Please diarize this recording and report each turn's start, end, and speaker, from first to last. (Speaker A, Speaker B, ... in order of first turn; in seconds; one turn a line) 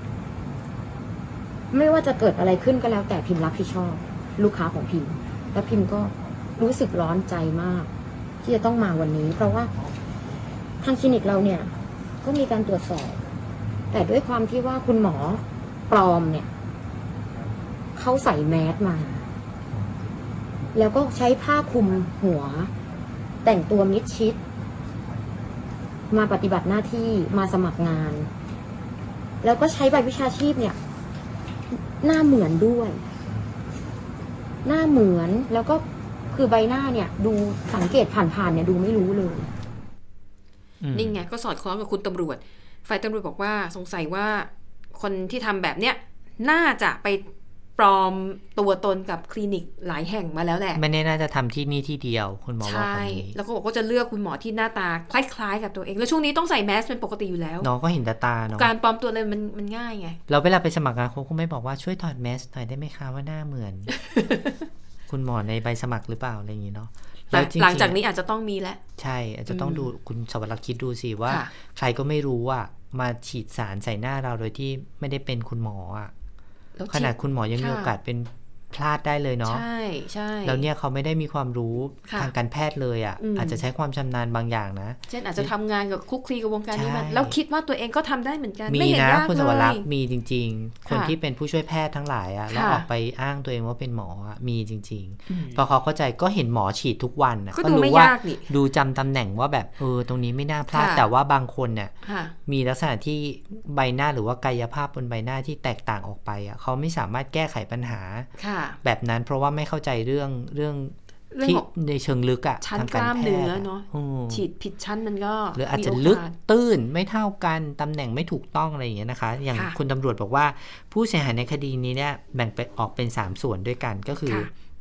Speaker A: 1.7-7.9
Speaker A: 8.4-9.7
Speaker A: 10.8-11.7
Speaker A: 12.2-13.2
Speaker A: 13.9-16.5
Speaker A: 18.0-19.2
Speaker A: 20.7-22.7
Speaker A: 23.4-24.4
Speaker A: 26.1-28.3
Speaker A: 29.4-30.8
Speaker A: 31.7-33.0
Speaker A: 34.6-39.5
Speaker B: 40.8-41.2
Speaker C: 40.9-50.8
Speaker B: 50.8-53.4
Speaker C: 52.6-57.7
Speaker B: 57.6-58.7
Speaker C: 58.5-60.2
Speaker B: 60.3-63.9
Speaker C: 64.0-64.5
Speaker B: 65.1-68.0
Speaker C: 67.3-68.8
Speaker B: 69.0-76.1
Speaker C: 69.5-69.9
Speaker C: 76.8-77.9
Speaker B: 76.9-79.7
Speaker C: 79.5-80.7
Speaker B: 80.5-85.5
Speaker C: 82.1-82.3
Speaker C: 83.2-83.6
Speaker C: 85.1-89.8
Speaker B: 86.7-87.4
Speaker B: 88.7-101.9
Speaker C: 90.9-91.1
Speaker C: 92.5-92.9
Speaker C: 95.3-95.6
Speaker C: 97.5-98.5
Speaker C: 100.7-101.0
Speaker C: 102.0-102.3
Speaker B: 102.5-108.3
Speaker C: 108.4-108.8
Speaker B: 108.8-114.5
Speaker C: 111.3-111.7
Speaker C: 112.6-116.3
Speaker B: 115.5-124.5